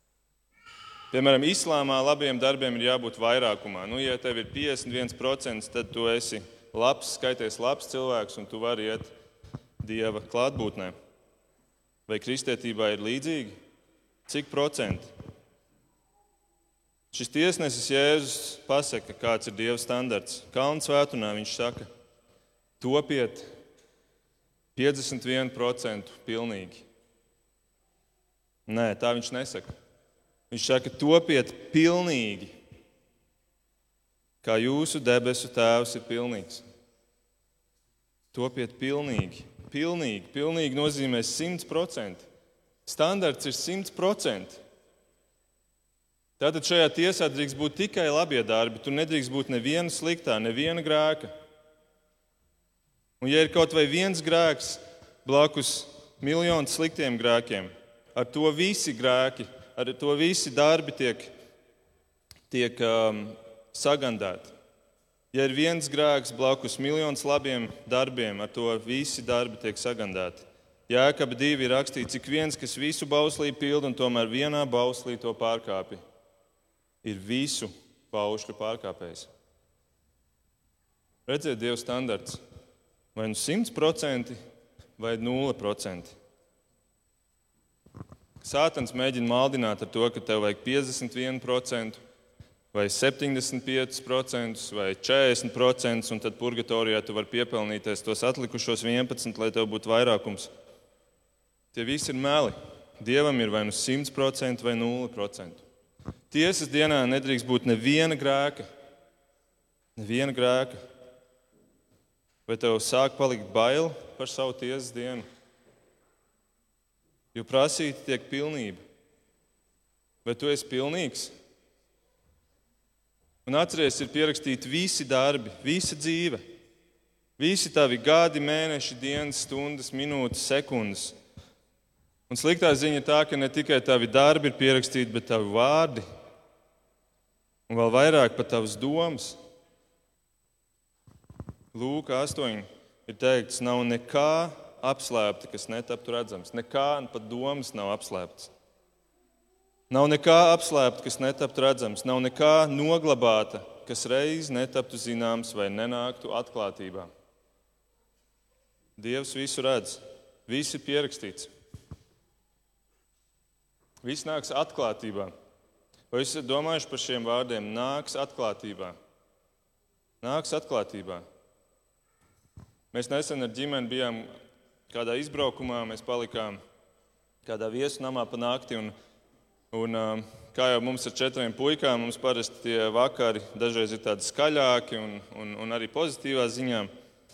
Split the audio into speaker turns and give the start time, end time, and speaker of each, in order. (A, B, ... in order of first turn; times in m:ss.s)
0:01.1-0:09.1 A
0:09.8-0:10.9 A
0:12.1-0:13.6 A
0:14.3-0:15.1 A
0:17.1-0:21.9 A
0:22.8-0:23.5 A
0:24.8-0:26.9 A
0:28.7-0:29.7 A
0:30.5-0:32.6 A
0:34.4-0:36.6 A
0:38.3-0:42.3 A
0:42.9-0:44.6 A
0:46.4-0:51.3 A
0:53.2-1:01.3 A
1:02.5-1:04.5 A
1:05.3-1:16.0 A
1:17.0-1:19.3 A
1:21.3-1:22.4 A
1:23.2-1:24.4 A
1:25.0-1:26.1 A
1:28.4-1:32.0 A
1:32.7-1:40.5 A
1:41.7-1:45.6 A
1:46.3-1:48.7 A
1:50.0-1:50.8 A
1:52.5-1:55.2 A
1:57.3-1:58.8 A
2:00.2-2:01.3 A
2:03.4-2:06.4 A
2:07.4-2:11.1 A
2:12.3-2:16.0 A
2:17.7-2:19.4 A
2:21.7-2:28.5 A
2:29.9-2:37.1 A
2:39.0-2:41.5 A
2:44.0-2:45.3 A
2:46.1-2:49.0 A
2:50.2-2:51.2 A
2:52.9-2:54.3 A
2:54.9-2:56.6 A
2:57.4-2:58.9 A
2:59.7-3:06.9 A